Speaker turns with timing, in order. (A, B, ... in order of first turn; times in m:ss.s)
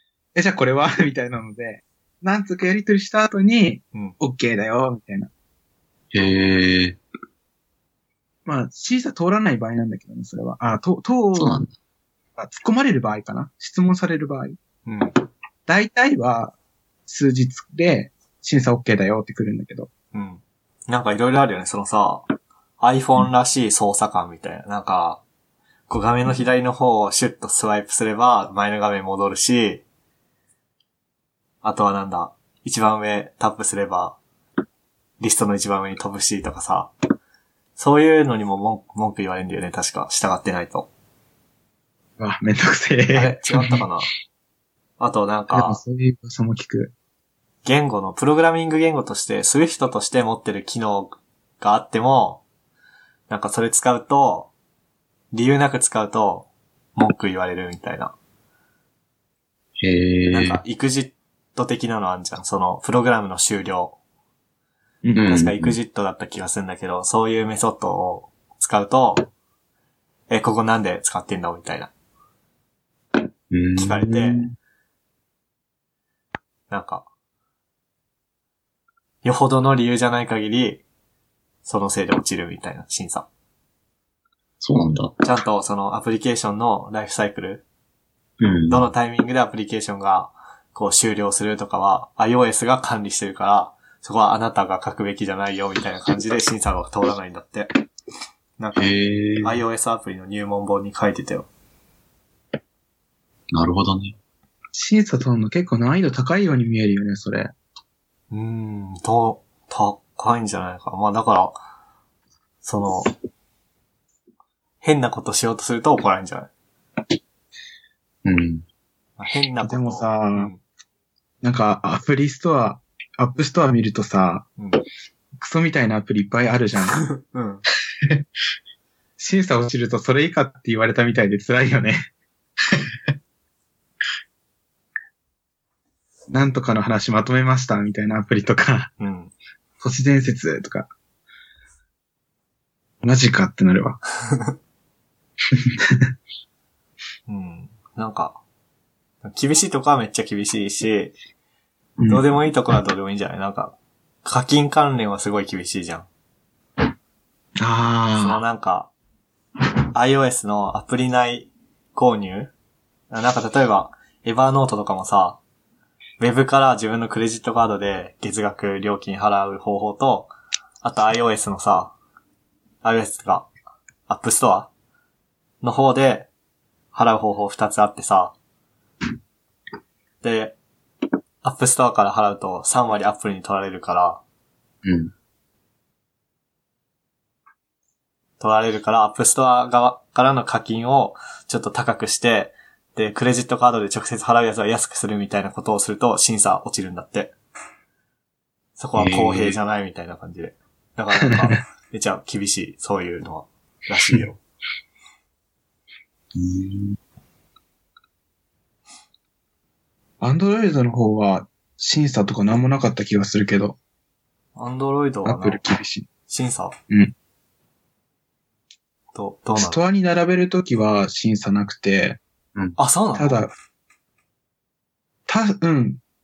0:00.4-0:05.3 A
0:06.1-0:07.0 B
0:08.5-0:11.6 A
0:11.4-0:11.7 B
0:12.4-0:14.6 A
0:14.9-0:15.1 C
0:15.7-0:16.5 A
0:17.1-0:19.9 A
0:20.1-0:22.3 C
0:22.8-0:25.2 C
0:25.9-0:29.8 C
0:31.6-0:34.2 C
0:35.2-0:36.9 C
0:37.8-0:40.9 C
0:42.2-0:43.8 A
0:43.1-0:44.1 C
0:45.0-0:45.8 C
0:45.5-0:46.9 A
0:47.6-0:52.4 C
0:53.3-0:54.5 C
0:55.3-0:58.2 C
0:59.8-1:00.6 B
1:00.3-1:04.0 C
1:05.2-1:05.8 B
1:05.3-1:09.3 C
1:10.3-1:11.9 C
1:13.5-1:14.5 B
1:13.8-1:14.5 C
1:16.7-1:17.1 C
1:19.2-1:20.8 C
1:21.6-1:23.3 C
1:24.6-1:25.1 B
1:25.2-1:27.6 C
1:28.4-1:28.8 B
1:28.7-1:37.7 C
1:38.6-1:41.5 C
1:38.8-1:39.6 B
1:43.5-1:44.2 B
1:44.7-1:47.5 A
1:48.3-1:51.6 C
1:52.6-1:53.1 C
1:54.8-1:56.5 C
1:58.2-1:58.6 B
1:59.2-2:00.6 C
1:59.6-2:00.5 A
2:01.4-2:04.5 A
2:05.4-2:07.1 A
2:06.9-2:07.6 C
2:09.2-2:12.1 A
2:16.3-2:18.9 A
2:19.0-2:19.3 C
2:19.8-2:20.9 A
2:23.0-2:24.0 A
2:24.3-2:24.6 C
2:27.3-2:28.4 C
2:29.2-2:31.1 C
2:32.0-2:32.2 A
2:32.1-2:36.1 C
2:37.6-2:38.4 A
2:38.2-2:38.9 C
2:39.9-2:42.5 C
2:43.1-2:45.4 C
2:46.2-2:50.3 C
2:50.8-2:51.9 C
2:52.8-2:53.5 C
2:54.1-2:54.7 C
2:55.6-2:56.3 C
2:56.9-2:58.4 C
3:00.2-3:00.6 C
3:01.4-3:04.2 C
3:04.8-3:05.1 B
3:08.4-3:17.4 C
3:18.8-3:24.4 C
3:19.0-3:19.6 B
3:26.4-3:27.0 B
3:30.2-3:33.8 A
3:34.6-3:35.6 C
3:35.2-3:36.1 A
3:36.3-3:36.8 C
3:39.1-3:39.8 C
3:39.6-3:42.2 A
3:42.8-3:43.4 C
3:43.2-3:43.5 A
3:45.3-3:46.0 A